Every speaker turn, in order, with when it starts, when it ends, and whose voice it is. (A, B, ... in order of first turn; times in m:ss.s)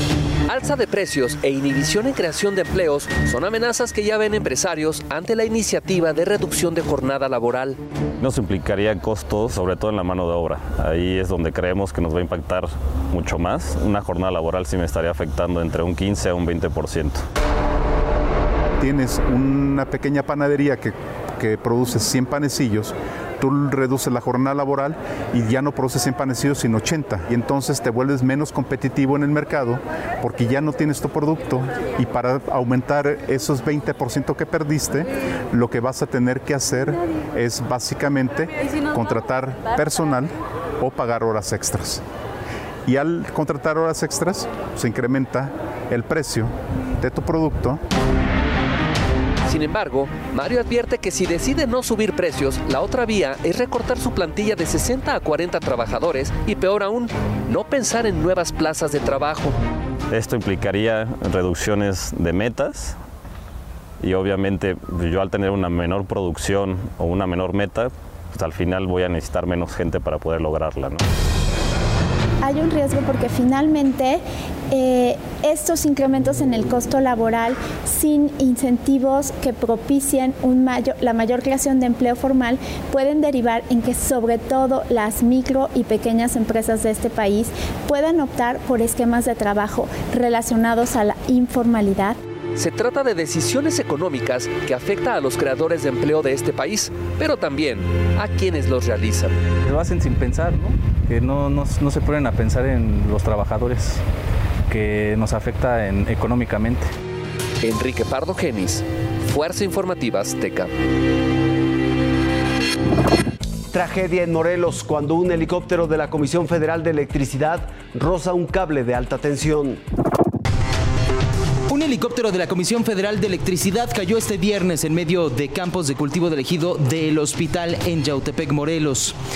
0:00.5-0:07.8 A
0:08.2-0:17.2 B
0:18.8-0:42.0 C
0:42.9-0:47.8 C
0:49.5-0:59.5 A
1:00.1-1:03.0 B
1:04.0-1:11.0 B
1:12.4-1:32.2 D
1:32.6-1:39.4 A
1:39.7-1:40.2 E
1:41.2-1:43.9 E
1:45.1-1:46.6 E
1:47.6-1:50.7 A
1:53.7-1:59.8 F
2:01.7-2:09.2 G